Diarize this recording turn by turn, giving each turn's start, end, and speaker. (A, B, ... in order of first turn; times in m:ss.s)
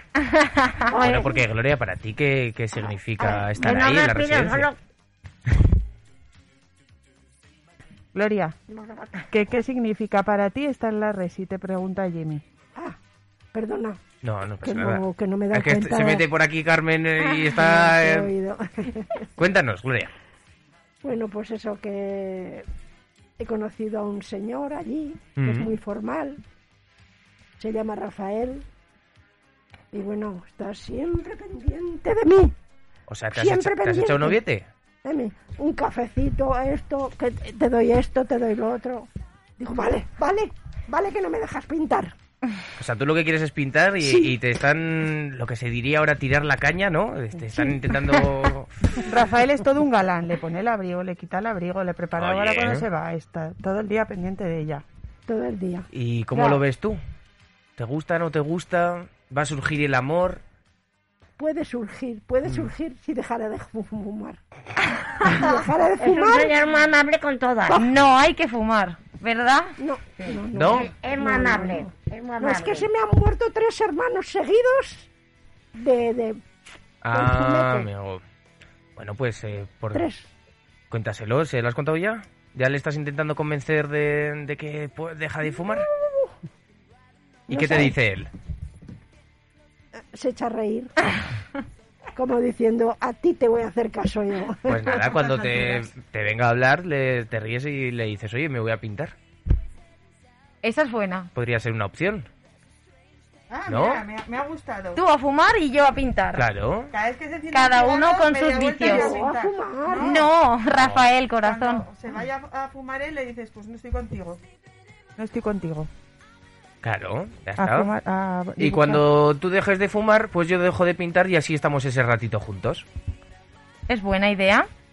0:00.9-0:01.4 A
0:00.9-0:04.6 B
0:03.2-0:04.8 A
0:08.1-0:08.6 C
0:08.7-0:09.2 A
0:09.3-0:12.4 C
0:13.5-0:14.0 D
0:14.2-0:18.3 B
0:14.6-0:16.2 D
0:17.2-0:19.2 D
0:19.4-0:20.1 B
0:21.0-0:22.7 D
0:23.4-0:26.4 D
0:25.4-0:25.7 B
0:27.6-0:28.6 D
0:29.9-0:32.5 D
0:33.1-0:34.7 B
0:33.3-0:34.4 D
0:35.0-0:42.1 D
0:42.8-0:48.7 B
0:44.0-0:44.4 D
0:49.0-0:54.8 C
0:52.2-0:52.8 B
0:55.3-0:55.9 D
0:55.9-0:57.0 B
0:57.8-1:00.4 B
1:01.4-1:04.4 D
1:02.4-1:02.7 B
1:05.2-1:06.5 D
1:06.0-1:07.8 A
1:07.8-1:09.7 E
1:09.8-1:15.1 D
1:10.5-1:10.9 B
1:10.8-1:12.9 A
1:15.8-1:16.4 D
1:17.0-1:18.2 B
1:17.1-1:17.9 D
1:19.0-1:20.1 B
1:19.9-1:20.3 D
1:20.9-1:25.9 B
1:27.5-1:27.9 D
1:27.5-1:28.3 B
1:30.0-1:30.9 D
1:32.2-1:34.8 D
1:34.7-1:39.1 B
1:34.9-1:35.9 C
1:40.6-1:41.3 E
1:41.3-1:42.3 B
1:43.5-1:45.0 C
1:43.7-1:44.0 B
1:44.9-1:46.4 E
1:46.3-1:46.9 B
1:46.9-1:50.3 C
1:47.5-1:49.1 E
1:48.8-1:50.2 D
1:50.0-1:51.8 E
1:50.8-1:51.0 B
1:51.4-1:54.4 C
1:55.2-1:55.9 C
1:56.8-1:57.9 B
1:57.6-1:59.0 C
1:58.6-2:02.8 B
2:03.9-2:04.7 E